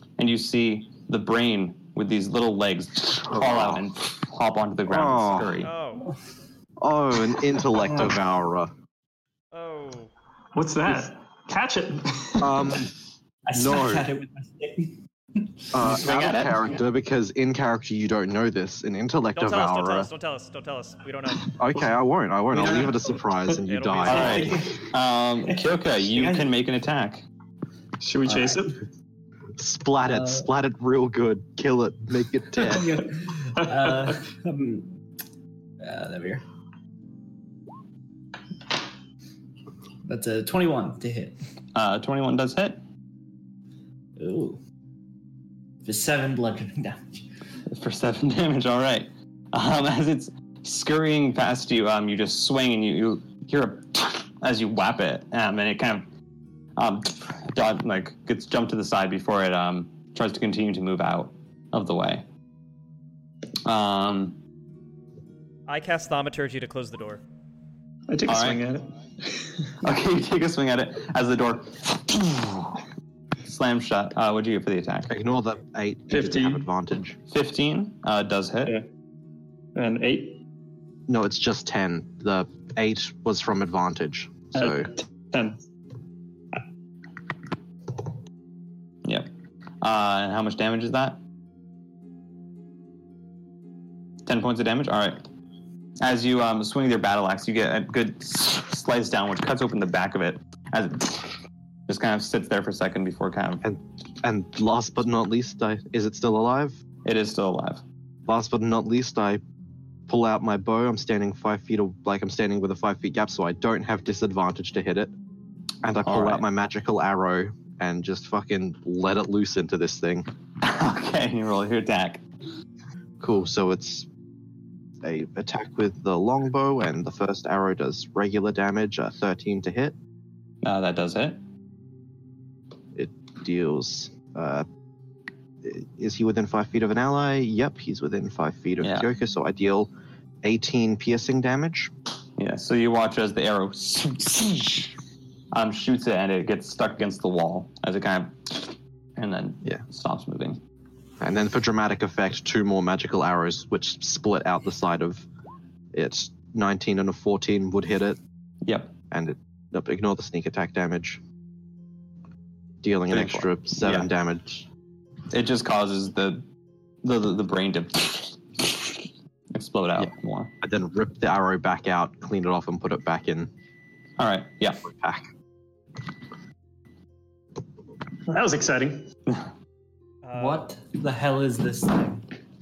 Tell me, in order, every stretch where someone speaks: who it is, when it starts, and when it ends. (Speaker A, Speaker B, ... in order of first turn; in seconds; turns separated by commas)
Speaker A: 0.2-5.7, Speaker B: 3.3-3.8, Speaker B: 4.9-5.6, Speaker C: 5.6-6.2, Speaker B: 6.8-8.7, Speaker C: 9.5-10.1, Speaker D: 10.5-12.8, Speaker B: 12.4-12.9, Speaker E: 13.5-15.5, Speaker B: 13.5-14.1, Speaker B: 15.7-20.1, Speaker A: 16.1-16.4, Speaker C: 19.3-21.6, Speaker B: 21.6-24.6, Speaker E: 22.5-23.1, Speaker C: 23.7-24.6, Speaker E: 24.0-24.8, Speaker A: 24.0-27.2, Speaker E: 25.5-26.5, Speaker D: 28.0-28.8, Speaker B: 29.6-32.9, Speaker E: 30.1-30.5, Speaker E: 32.5-34.9, Speaker D: 33.6-34.1, Speaker E: 35.8-36.4, Speaker E: 40.0-41.4, Speaker A: 41.8-42.8, Speaker E: 44.2-44.6, Speaker E: 45.8-47.2, Speaker A: 47.7-56.1, Speaker A: 56.8-62.3, Speaker A: 63.6-64.4, Speaker C: 65.7-67.2, Speaker D: 68.1-69.7, Speaker A: 68.3-68.6, Speaker A: 69.8-72.8, Speaker A: 73.4-75.1, Speaker B: 75.1-77.2, Speaker D: 76.1-76.7, Speaker A: 77.3-78.8, Speaker D: 79.8-80.4, Speaker B: 81.1-84.9, Speaker D: 84.5-85.6, Speaker A: 89.8-91.2, Speaker A: 94.2-95.2, Speaker A: 96.0-103.6, Speaker B: 103.6-106.8, Speaker A: 107.0-107.8, Speaker B: 108.3-109.4, Speaker B: 110.1-115.1, Speaker B: 115.8-120.3, Speaker A: 116.0-116.4, Speaker A: 120.6-122.2, Speaker B: 123.2-124.1, Speaker B: 125.0-130.0, Speaker A: 130.6-131.4, Speaker B: 133.0-134.7, Speaker B: 135.6-139.9, Speaker A: 138.8-139.1, Speaker B: 140.4-141.9, Speaker A: 142.4-144.9, Speaker A: 145.5-150.6, Speaker B: 151.2-155.3, Speaker B: 155.9-158.2, Speaker A: 158.7-158.9, Speaker B: 159.1-161.2, Speaker B: 162.8-164.7, Speaker A: 163.1-164.1, Speaker A: 165.3-166.4, Speaker A: 167.0-170.5, Speaker B: 170.0-173.5, Speaker A: 174.2-174.8, Speaker B: 174.8-175.3, Speaker D: 178.3-179.1, Speaker C: 180.2-180.7, Speaker E: 180.3-182.3